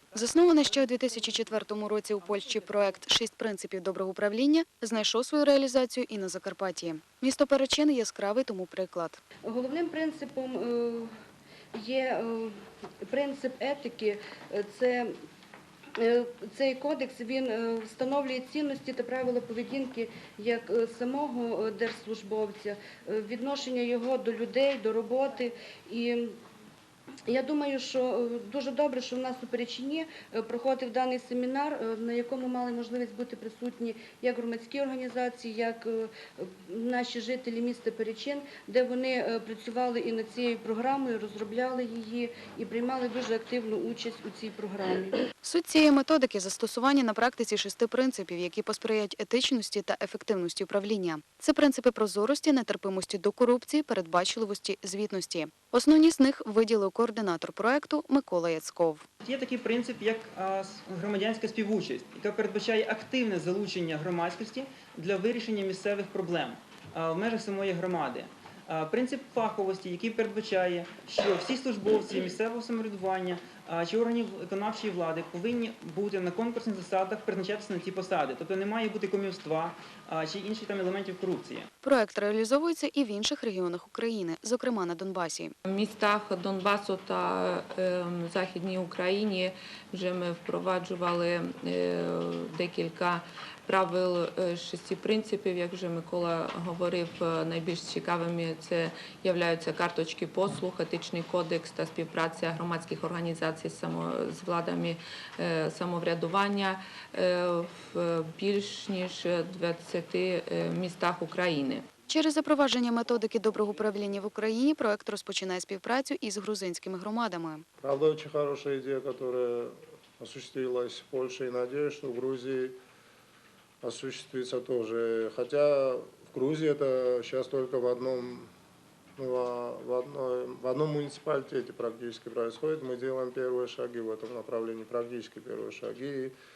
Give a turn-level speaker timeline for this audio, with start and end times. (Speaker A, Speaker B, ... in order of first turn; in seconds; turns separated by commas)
Speaker A: 0.1-9.2, Speaker B: 9.4-11.1, Speaker B: 11.7-15.1, Speaker B: 16.0-26.3, Speaker B: 27.3-45.2, Speaker A: 45.4-59.0, Speaker C: 59.2-81.7, Speaker A: 81.8-85.5, Speaker D: 85.7-111.8, Speaker A: 112.1-117.6, Speaker E: 117.8-122.8, Speaker E: 123.8-128.5, Speaker E: 129.2-136.3